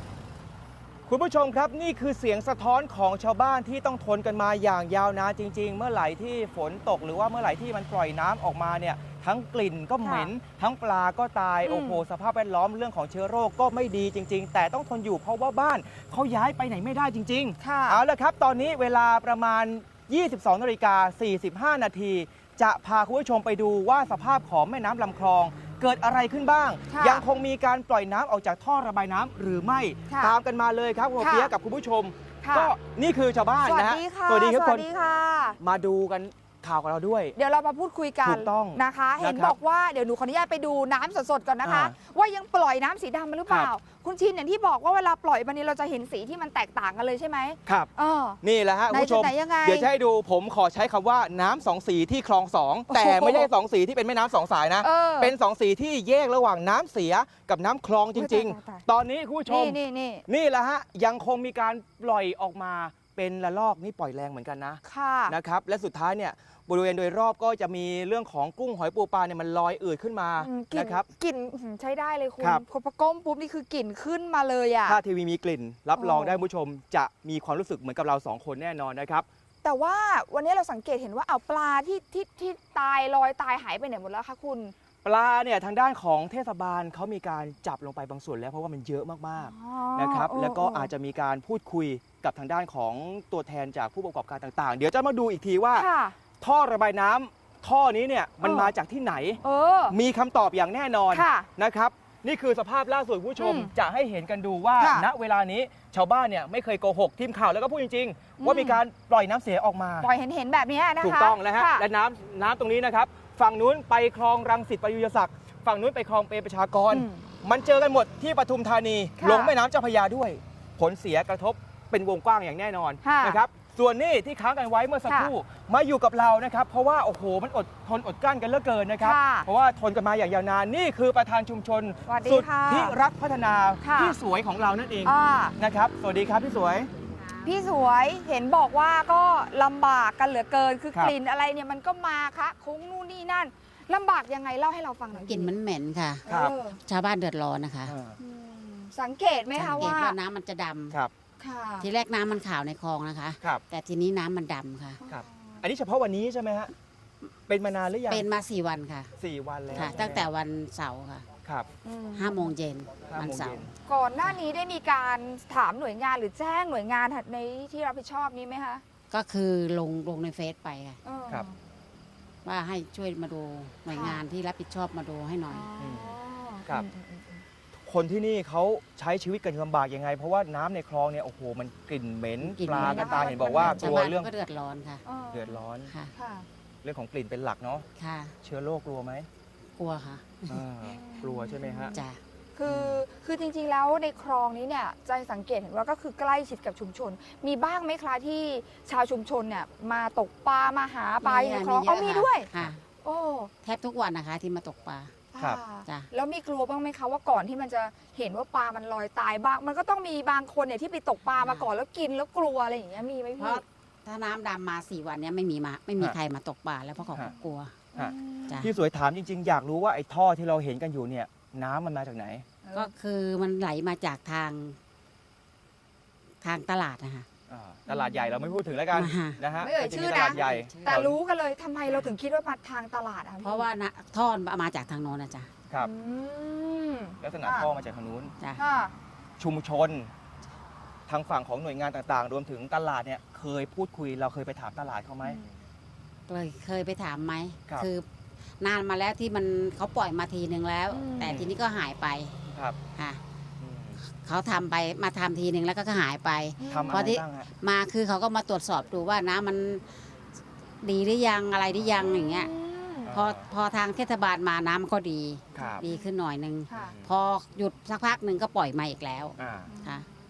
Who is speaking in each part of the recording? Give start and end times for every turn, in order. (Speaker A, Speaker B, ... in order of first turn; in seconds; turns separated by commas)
Speaker A: 1.1-34.9, Speaker B: 10.0-10.3, Speaker B: 11.7-12.0, Speaker B: 17.6-18.0, Speaker B: 26.9-27.2, Speaker B: 30.1-30.4, Speaker B: 31.2-31.5, Speaker B: 32.4-32.7, Speaker B: 33.6-35.6, Speaker A: 35.6-37.4, Speaker B: 37.4-49.9, Speaker A: 38.2-39.6, Speaker A: 41.6-42.0, Speaker A: 48.4-71.1, Speaker B: 52.9-53.5, Speaker B: 54.8-55.3, Speaker B: 58.1-58.9, Speaker B: 59.5-60.2, Speaker B: 64.8-65.3, Speaker B: 70.4-75.0, Speaker A: 74.9-79.3, Speaker B: 76.0-76.4, Speaker B: 79.6-84.7, Speaker A: 85.0-95.9, Speaker B: 89.4-90.9, Speaker B: 95.8-96.2, Speaker A: 96.4-110.1, Speaker B: 98.4-98.7, Speaker B: 99.4-100.0, Speaker B: 101.1-101.5, Speaker B: 103.4-103.7, Speaker B: 104.8-105.1, Speaker B: 108.4-108.8, Speaker B: 110.0-111.9, Speaker A: 111.0-136.9, Speaker B: 116.9-117.2, Speaker B: 119.2-119.5, Speaker B: 123.0-123.4, Speaker B: 125.1-125.3, Speaker B: 129.0-129.5, Speaker B: 132.1-133.0, Speaker B: 133.8-134.2, Speaker B: 135.1-135.6, Speaker B: 137.4-145.5, Speaker C: 145.2-146.2, Speaker B: 146.2-146.8, Speaker A: 146.3-146.5, Speaker C: 146.8-147.9, Speaker A: 147.9-148.2, Speaker B: 148.2-150.2, Speaker A: 149.6-149.9, Speaker C: 149.6-151.0, Speaker B: 151.4-151.9, Speaker C: 151.8-155.0, Speaker B: 155.0-155.6, Speaker A: 155.1-156.7, Speaker A: 157.5-158.3, Speaker C: 158.1-159.1, Speaker A: 159.2-160.3, Speaker C: 159.7-161.3, Speaker B: 161.8-162.5, Speaker C: 162.2-163.7, Speaker A: 163.1-163.7, Speaker B: 163.9-168.8, Speaker C: 169.1-171.0, Speaker B: 171.0-171.6, Speaker C: 172.4-175.7, Speaker B: 173.9-174.2, Speaker B: 175.5-177.4, Speaker A: 175.8-176.2, Speaker A: 177.9-184.3, Speaker C: 182.4-185.0, Speaker B: 182.8-184.1, Speaker B: 185.1-185.6, Speaker A: 185.3-185.9, Speaker C: 185.9-186.1, Speaker B: 186.2-186.5, Speaker A: 186.8-187.9, Speaker C: 188.0-188.3, Speaker A: 188.4-189.3, Speaker C: 189.8-190.6, Speaker A: 190.5-191.9, Speaker B: 190.9-192.0, Speaker B: 192.6-202.5, Speaker A: 192.7-193.0, Speaker C: 201.2-202.8, Speaker B: 203.0-203.5, Speaker C: 203.6-205.1, Speaker B: 205.3-213.6, Speaker C: 205.8-206.1, Speaker C: 211.4-211.7, Speaker C: 213.4-217.8, Speaker B: 218.0-218.6, Speaker A: 218.0-222.4, Speaker B: 222.7-222.9, Speaker C: 222.7-224.8, Speaker C: 226.4-227.3, Speaker A: 227.5-231.2, Speaker B: 227.9-228.6, Speaker C: 228.9-229.4, Speaker B: 229.6-233.7, Speaker C: 230.2-231.0, Speaker C: 233.4-235.5, Speaker B: 235.8-237.7, Speaker A: 237.2-238.3, Speaker B: 238.6-238.9, Speaker A: 239.4-240.1, Speaker A: 241.1-245.5, Speaker C: 246.3-248.1, Speaker C: 248.6-252.4, Speaker B: 250.9-251.3, Speaker A: 251.2-251.5, Speaker A: 252.5-252.8, Speaker A: 253.6-254.0, Speaker C: 254.1-259.9, Speaker B: 256.6-257.1, Speaker A: 256.7-257.5, Speaker C: 260.8-262.5, Speaker B: 262.1-263.2, Speaker A: 263.1-263.5, Speaker C: 263.1-270.1, Speaker A: 265.6-265.8, Speaker B: 265.6-266.1, Speaker B: 266.7-267.0, Speaker A: 266.8-267.1, Speaker A: 269.4-269.7, Speaker B: 269.7-270.0